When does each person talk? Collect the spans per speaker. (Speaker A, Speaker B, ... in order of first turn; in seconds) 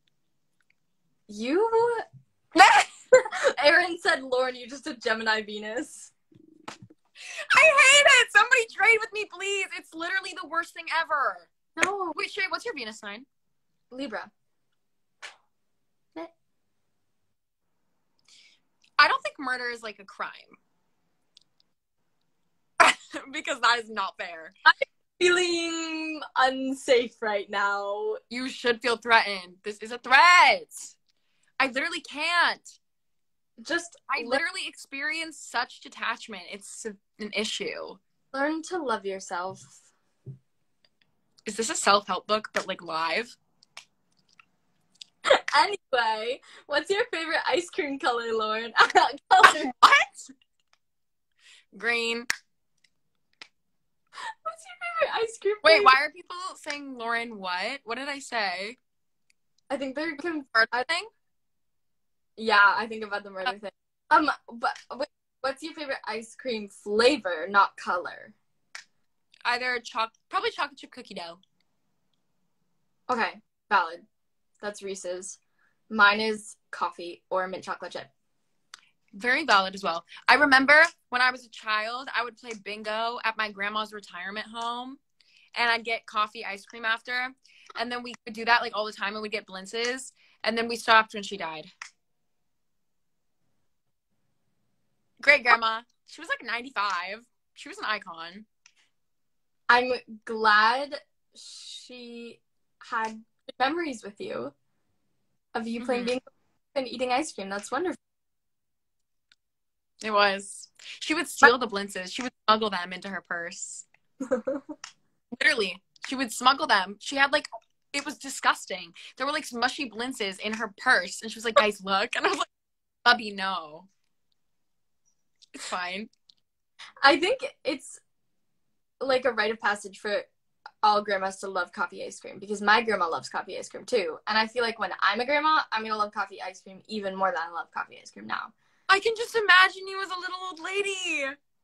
Speaker A: 1.3-2.0, 3.1-6.1, 11.8-12.2, 13.9-14.3, 24.6-28.2, 33.6-34.4, 38.3-39.8, 45.2-49.7, 54.2-55.9, 59.7-60.9, 62.4-68.3, 73.1-74.0, 74.6-75.4, 75.9-78.1, 99.7-104.5, 105.5-106.2, 106.7-108.0, 114.3-114.6, 127.0-128.0, 129.0-130.3, 130.8-138.5
Speaker B: 2.5-2.9, 7.2-11.5, 12.1-13.2, 19.0-20.6, 22.8-24.5, 28.3-30.9, 31.6-32.8, 34.1-38.0, 41.5-43.3, 49.4-50.3, 51.7-52.3, 55.6-58.8, 60.5-61.1, 69.4-71.4, 79.1-85.0, 85.5-91.7, 95.2-98.5, 105.8-106.1, 110.0-113.8, 115.3-122.5, 123.0-123.9, 125.5-126.1, 138.9-141.4